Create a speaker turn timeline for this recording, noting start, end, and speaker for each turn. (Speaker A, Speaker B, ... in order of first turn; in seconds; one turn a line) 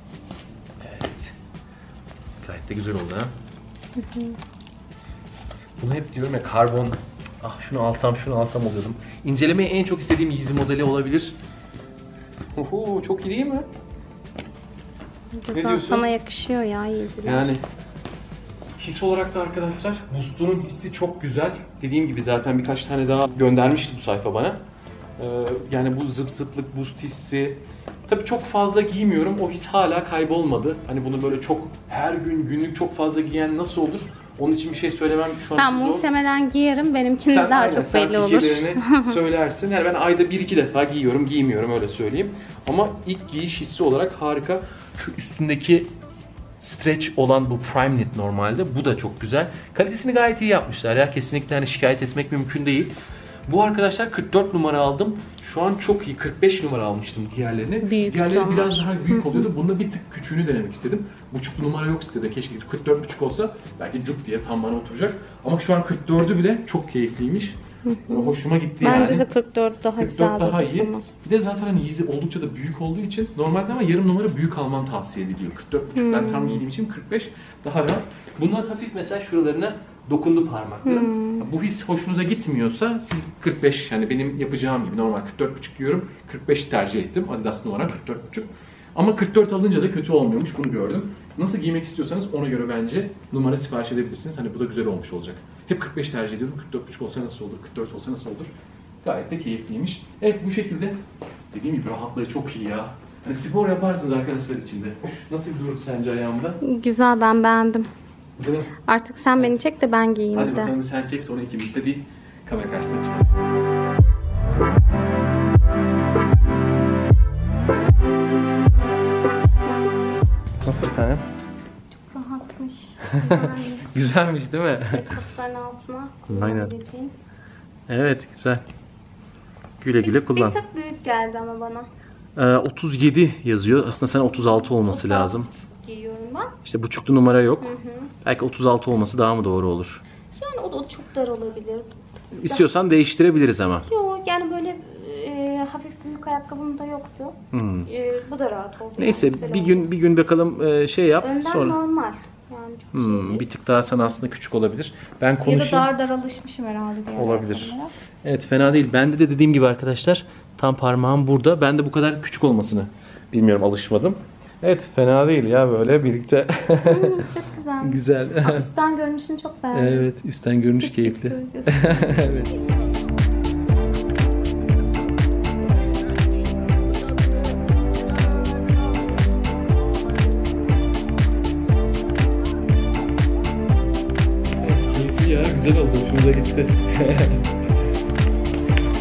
Speaker A: 0.8-1.3
Speaker A: 2.4-3.3
Speaker B: 4.0-4.4
Speaker A: 5.8-11.3
Speaker A: 12.6-13.7
Speaker B: 15.4-17.4
Speaker A: 15.5-16.1
Speaker A: 17.2-17.6
Speaker A: 18.8-24.6
Speaker A: 25.2-36.1
Speaker B: 35.5-39.1
Speaker A: 37.2-45.9
Speaker A: 46.6-52.9
Speaker A: 53.5-69.3
Speaker B: 57.8-59.4
Speaker B: 67.9-71.0
Speaker A: 70.0-98.5
Speaker B: 76.0-76.6
Speaker B: 80.8-81.5
Speaker A: 99.0-101.0
Speaker A: 101.5-106.6
Speaker B: 106.6-107.9
Speaker A: 108.4-108.7
Speaker B: 108.8-110.7
Speaker A: 109.4-109.6
Speaker A: 110.3-113.3
Speaker A: 120.6-121.2
Speaker B: 121.9-124.0
Speaker A: 123.0-125.1
Speaker B: 124.9-127.1
Speaker A: 126.3-126.7
Speaker A: 127.9-128.6
Speaker A: 129.8-130.6
Speaker B: 130.0-131.9
Speaker A: 132.3-135.5
Speaker B: 134.3-136.6
Speaker A: 136.6-140.0
Speaker B: 137.6-138.1
Speaker B: 140.3-141.9
Speaker A: 142.3-143.9
Speaker B: 143.9-149.9
Speaker A: 147.5-147.9
Speaker A: 149.0-151.8
Speaker B: 151.2-153.4
Speaker A: 152.9-155.9
Speaker B: 155.4-157.9
Speaker A: 157.1-167.2
Speaker B: 166.8-170.1
Speaker A: 167.8-168.7
Speaker A: 169.7-172.6
Speaker B: 170.8-172.2
Speaker A: 184.6-187.5